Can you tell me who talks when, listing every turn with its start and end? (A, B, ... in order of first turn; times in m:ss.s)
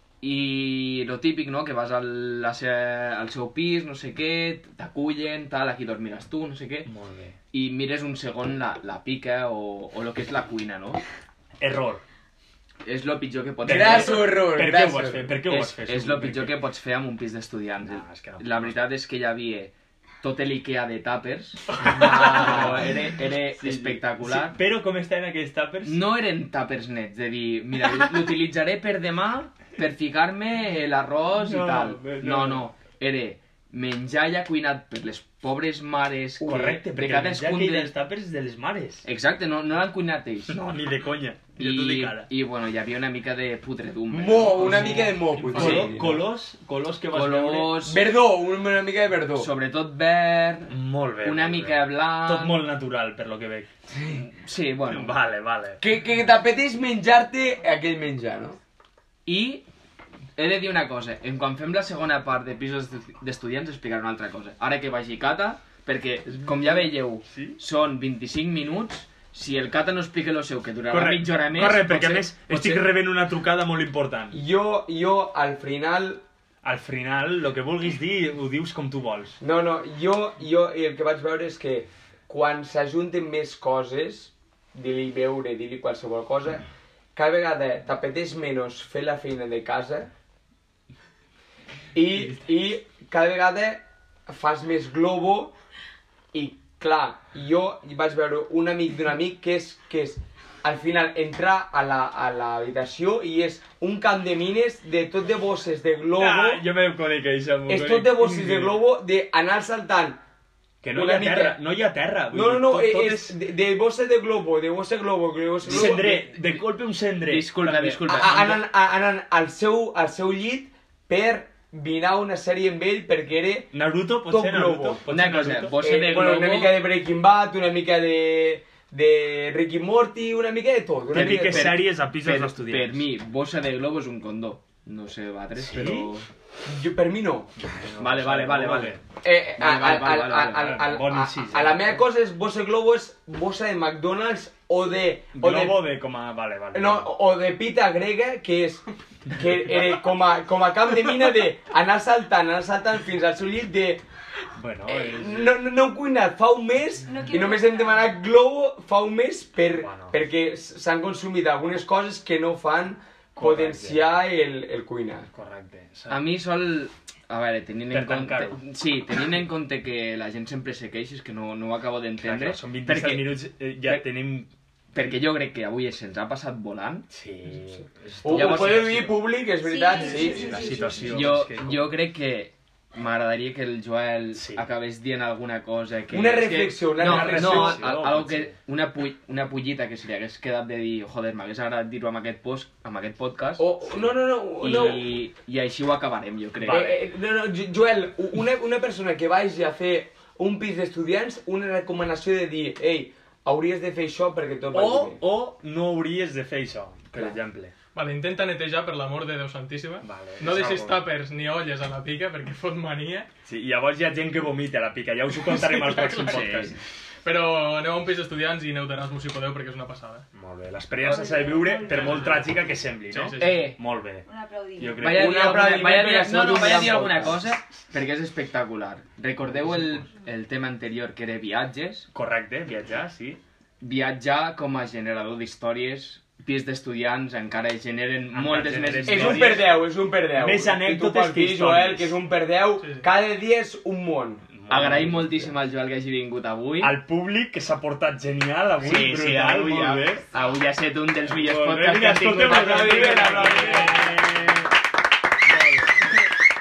0:00.2-0:06.9 A
0:06.8-0:07.4 B
0:07.5-0:11.0 A
0:11.6-0:12.0 B
0:12.8-0:14.4 A
0:13.6-0:16.6 B
0:13.6-0:15.3 C
0:15.4-0:24.6 A
0:17.8-0:18.8 B
0:21.7-0:26.0 B
0:25.8-0:37.9 A
0:31.4-0:32.7 B
0:36.4-0:39.0 B
0:36.4-0:36.8 C
0:39.0-0:40.6 A
0:40.5-0:42.3 B
0:41.6-0:46.0 A
0:44.1-0:46.2 C
0:44.5-0:47.8 B
0:47.1-0:48.1 A
0:47.8-0:49.5 C
0:49.3-0:52.6 A
0:50.7-0:53.7 B
0:54.1-0:55.1 A
0:54.9-0:55.8 B
0:55.8-0:58.6 C
0:59.2-0:59.6 A
1:00.4-1:12.9 A
1:07.3-1:07.6 B
1:10.9-1:14.4 B
1:14.3-1:16.2 C
1:16.6-1:19.4 B
1:19.4-1:30.1 C
1:31.9-1:35.5 C
1:36.3-1:46.6 C
1:46.2-1:48.8 B
1:47.7-1:50.2 C
1:50.8-1:53.4 B
1:50.9-1:51.6 C
1:52.3-1:56.3 C
1:55.6-1:58.6 B
1:55.7-1:56.6 A
1:57.2-1:58.6 A
1:58.1-2:03.7 C
2:03.7-2:05.8 B
2:04.2-2:05.0 C
2:05.0-2:06.8 A
2:05.8-2:11.8 C
2:11.1-2:13.1 B
2:11.1-2:16.3 A
2:15.6-2:16.1 B
2:16.6-2:17.5 C
2:17.6-2:19.0 B
2:18.0-2:19.0 A
2:19.2-2:25.8 C
2:19.5-2:20.8 A
2:20.4-2:22.0 B
2:25.3-2:27.1 B
2:26.7-2:34.0 C
2:34.6-2:35.6 B
2:34.9-2:45.3 C
2:37.0-2:38.0 D
2:39.7-2:40.2 B
2:43.4-2:44.1 B
2:45.3-2:46.2 B
2:46.1-2:54.0 A
2:47.9-2:48.6 B
2:52.2-2:54.5 B
2:54.9-2:57.1 A
2:57.1-2:59.2 B
2:58.2-3:01.0 C
2:58.3-2:59.2 A
2:59.6-3:01.2 D
3:00.0-3:01.9 B
3:01.0-3:13.7 A
3:04.4-3:04.6 B
3:06.1-3:07.8 C
3:07.0-3:08.6 B
3:13.6-3:15.1 C
3:14.6-3:17.0 A
3:16.6-3:25.2 C
3:24.7-3:27.7 B
3:27.9-3:33.3 E
3:30.0-3:31.0 B
3:33.4-3:36.8 B
3:35.5-3:36.4 E
3:36.2-3:36.8 A
3:37.2-3:40.2 E
3:40.3-3:44.2 B
3:41.0-3:42.5 D
3:41.8-3:42.4 E
3:43.1-3:43.6 E
3:43.4-3:43.8 A
3:44.2-3:45.1 D
3:44.8-3:45.7 B
3:45.0-3:52.1 A
3:45.0-3:47.4 C
3:52.1-3:53.4 B
3:53.8-3:59.6 A
3:58.3-4:02.2 B
3:59.0-4:04.5 C
4:04.5-4:05.2 B
4:04.7-4:06.9 A
4:06.8-4:10.2 B
4:08.8-4:14.4 A
4:11.3-4:14.7 B
4:12.4-4:14.3 C
4:15.6-4:16.1 B